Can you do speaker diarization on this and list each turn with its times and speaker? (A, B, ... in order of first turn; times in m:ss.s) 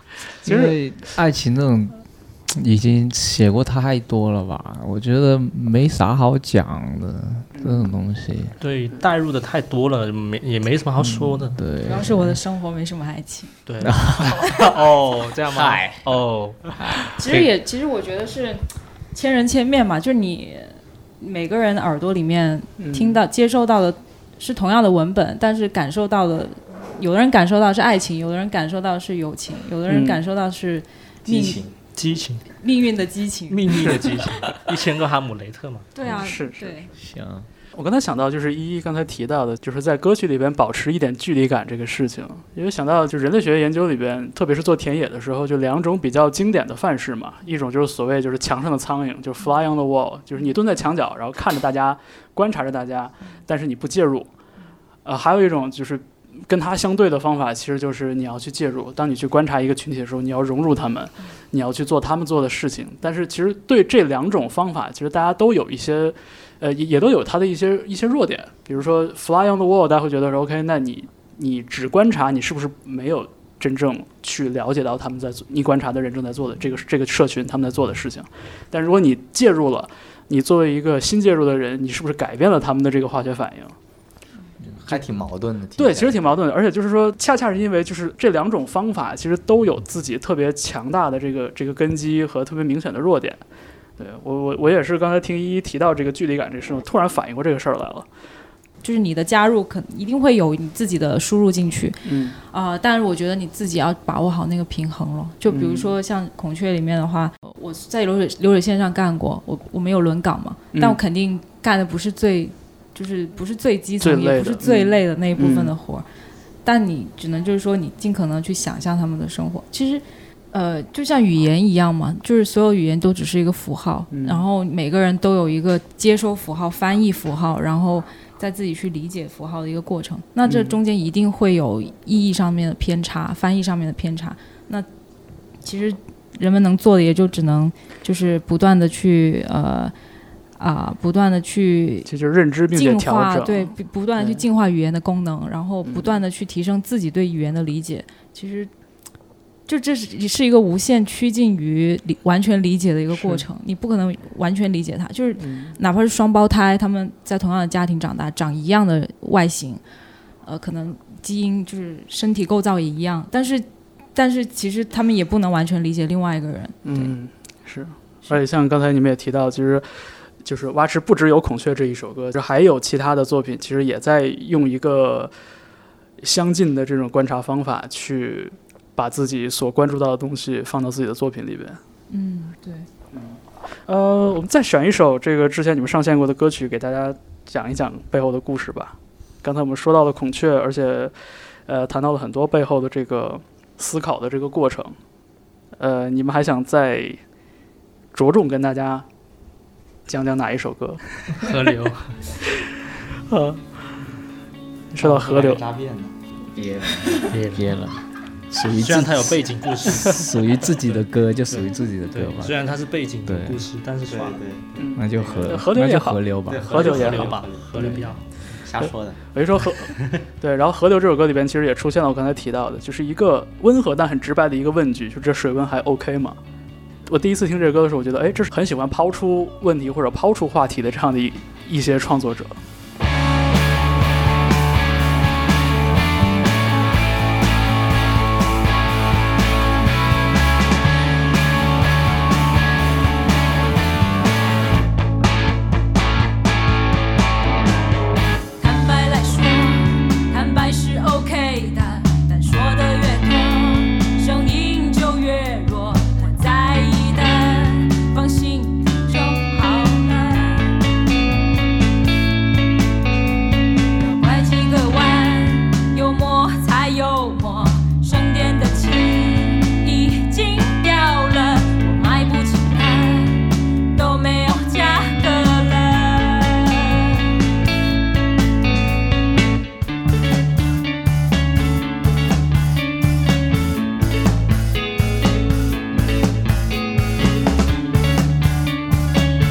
0:00.4-0:00.8 A
0:00.4-0:08.6 B
0:07.5-0:07.9 A
0:08.6-0:11.6 C
0:11.0-0:12.4 B
0:11.8-0:13.6 D
0:13.7-0:16.6 C
0:13.8-0:14.6 B
0:15.5-0:16.0 B
0:17.1-0:18.6 D
0:19.1-0:31.6 D
0:22.8-0:23.2 A
0:29.9-0:30.2 A
0:31.3-0:31.7 E
0:32.0-0:32.4 C
0:32.6-0:33.9 D
0:33.5-0:35.9 C
0:33.7-0:34.2 A
0:36.0-0:36.9 D
0:36.1-0:36.8 A
0:36.9-0:37.5 B
0:37.7-0:54.3 A
0:55.0-1:23.8 A
1:24.8-1:26.4 E
1:25.8-1:33.4 A
1:34.0-1:38.1 A
1:38.8-1:56.0 D
1:42.0-1:42.4 A
1:45.5-1:46.0 A
1:50.7-1:51.0 A
1:54.0-1:55.7 A
1:56.6-2:14.9 D
2:04.1-2:04.5 A
2:10.4-2:10.8 A
2:15.6-2:19.9 D
2:20.6-2:22.1 D
2:22.1-2:24.4 A
2:22.7-2:28.7 D
2:25.8-2:26.2 A
2:29.7-2:39.8 D
2:33.1-2:33.4 A
2:35.4-2:35.8 A
2:40.4-2:47.1 D
2:46.8-2:49.9 A
2:50.4-2:55.3 A
2:56.2-3:01.8 A
3:02.1-3:02.9 D
3:03.1-3:11.1 A
3:11.7-3:15.0 A
3:15.8-3:17.2 A
3:18.1-3:19.0 A
3:20.1-3:21.6 A
3:21.4-3:22.2 C
3:23.3-3:23.6 A
3:24.9-3:25.6 A
3:25.0-3:27.2 E
3:26.8-3:32.6 B
3:27.3-3:27.7 C
3:28.8-3:34.4 C
3:33.3-3:33.7 B
3:34.1-3:35.7 E
3:34.8-3:38.0 A
3:35.0-3:36.7 B
3:36.4-3:38.0 E
3:36.7-3:38.2 C
3:38.6-3:39.2 E
3:39.3-3:46.4 A
3:47.1-3:52.6 A
4:08.6-4:20.8 F
4:24.0-4:37.3 F